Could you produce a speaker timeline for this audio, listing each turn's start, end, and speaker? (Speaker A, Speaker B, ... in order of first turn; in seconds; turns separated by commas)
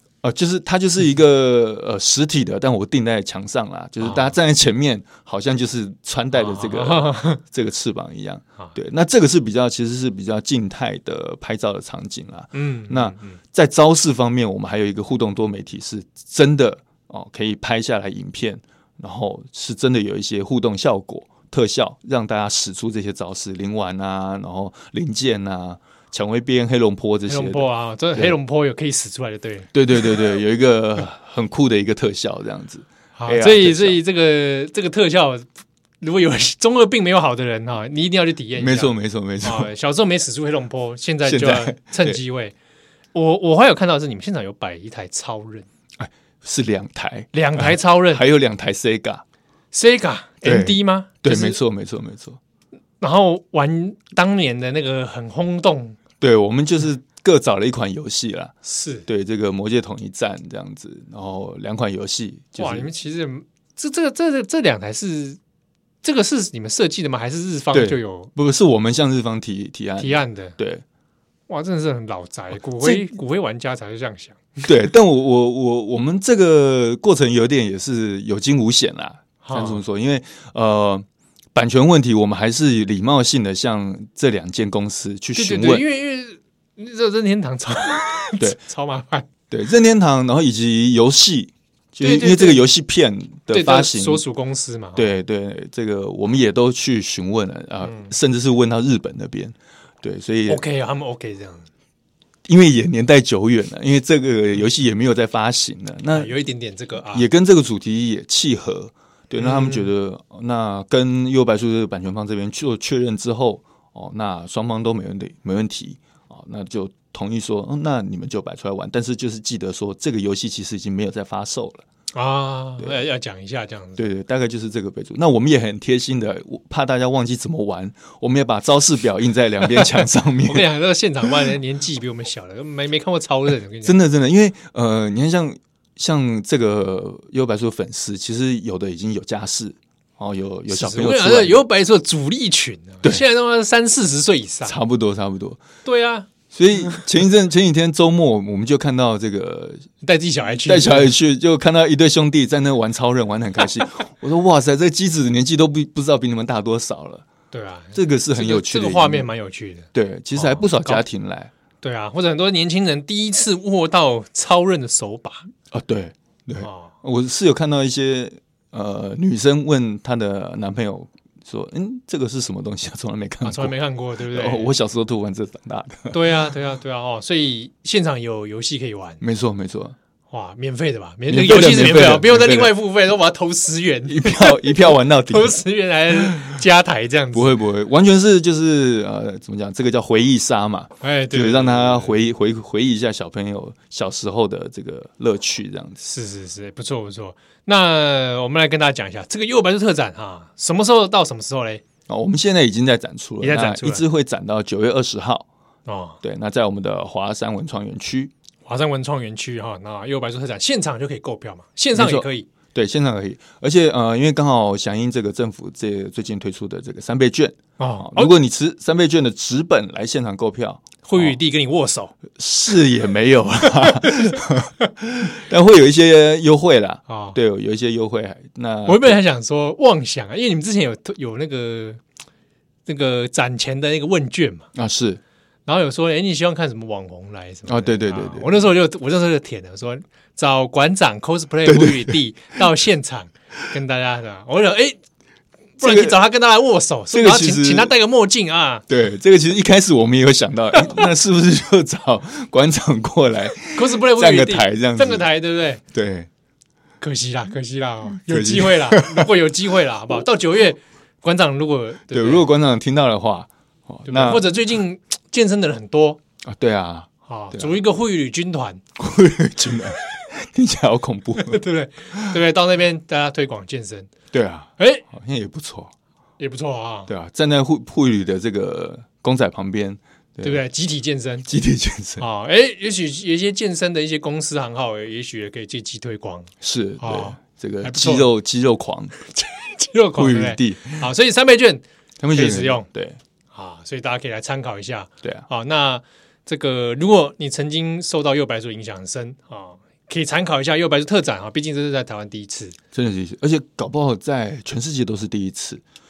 Speaker A: 0.2-28.4, Speaker B: 4.0-4.3, Speaker B: 6.3-7.4, Speaker B: 12.5-13.4, Speaker B: 27.3-29.7, Speaker A: 29.7-34.0, Speaker B: 33.1-35.5, Speaker B: 36.0-42.5, Speaker A: 38.6-39.7, Speaker A: 41.2-42.2, Speaker B: 43.1-45.7, Speaker A: 46.0-49.2, Speaker B: 47.3-48.2, Speaker B: 49.7-51.6, Speaker A: 50.4-52.4, Speaker B: 53.0-56.0, Speaker A: 56.2-62.9, Speaker B: 58.6-59.0, Speaker B: 62.6-65.4, Speaker B: 66.0-68.3, Speaker A: 67.7-70.8, Speaker B: 70.0-70.6, Speaker B: 71.5-74.7, Speaker A: 72.8-73.1, Speaker A: 74.6-85.8, Speaker B: 79.4-79.8, Speaker B: 85.3-89.3, Speaker A: 89.5-94.2, Speaker B: 92.0-92.6, Speaker B: 93.5-95.2, Speaker A: 94.9-100.6, Speaker B: 97.8-98.1, Speaker B: 100.5-101.7, Speaker A: 102.5-106.3, Speaker B: 106.1-107.3, Speaker A: 107.1-121.8, Speaker B: 109.4-109.9, Speaker B: 122.1-124.1, Speaker A: 124.0-130.7, Speaker B: 129.7-133.9, Speaker A: 133.8-141.6, Speaker B: 140.7-144.8, Speaker A: 144.6-145.6, Speaker B: 145.8-146.3, Speaker A: 146.5-149.9, Speaker B: 150.0-151.1, Speaker A: 150.6-157.2, Speaker B: 157.5-161.0, Speaker A: 157.9-159.3, Speaker A: 159.9-161.5, Speaker B: 161.8-165.5, Speaker A: 165.7-173.8, Speaker B: 166.6-166.9, Speaker B: 173.4-174.7, Speaker A: 174.3-176.2, Speaker B: 176.1-179.2, Speaker A: 179.2-179.9, Speaker B: 180.3-187.6, Speaker A: 181.3-182.7, Speaker A: 184.1-185.6, Speaker A: 186.1-186.6, Speaker A: 187.3-196.0, Speaker B: 191.0-192.2, Speaker B: 196.0-201.8, Speaker A: 202.1-205.5, Speaker B: 203.4-204.0, Speaker B: 205.8-206.2, Speaker A: 206.2-208.3, Speaker B: 208.7-212.5, Speaker A: 211.9-221.3, Speaker B: 217.8-218.3, Speaker B: 221.0-222.2, Speaker A: 222.3-229.2, Speaker B: 223.8-224.4, Speaker B: 227.1-227.4, Speaker B: 228.8-232.0, Speaker B: 232.8-234.7, Speaker A: 234.7-235.2, Speaker B: 235.7-245.0, Speaker A: 237.7-238.6, Speaker A: 241.7-242.2, Speaker B: 245.8-248.8, Speaker A: 245.8-246.2, Speaker A: 247.1-247.9, Speaker A: 248.9-255.3, Speaker B: 253.7-255.8, Speaker A: 255.8-256.3, Speaker B: 257.0-262.5, Speaker A: 258.1-259.3, Speaker A: 262.1-264.5, Speaker B: 264.1-266.2, Speaker A: 266.4-267.8, Speaker B: 267.2-268.8, Speaker A: 269.0-271.6, Speaker B: 271.4-274.1, Speaker A: 274.3-275.9, Speaker B: 274.8-275.1, Speaker B: 276.4-277.1, Speaker A: 277.1-280.6, Speaker B: 280.4-281.5, Speaker A: 281.5-282.2, Speaker B: 282.2-288.3, Speaker A: 286.6-289.1, Speaker B: 289.3-292.9, Speaker A: 290.1-291.1, Speaker A: 292.2-293.2, Speaker B: 293.5-302.8, Speaker A: 302.9-305.8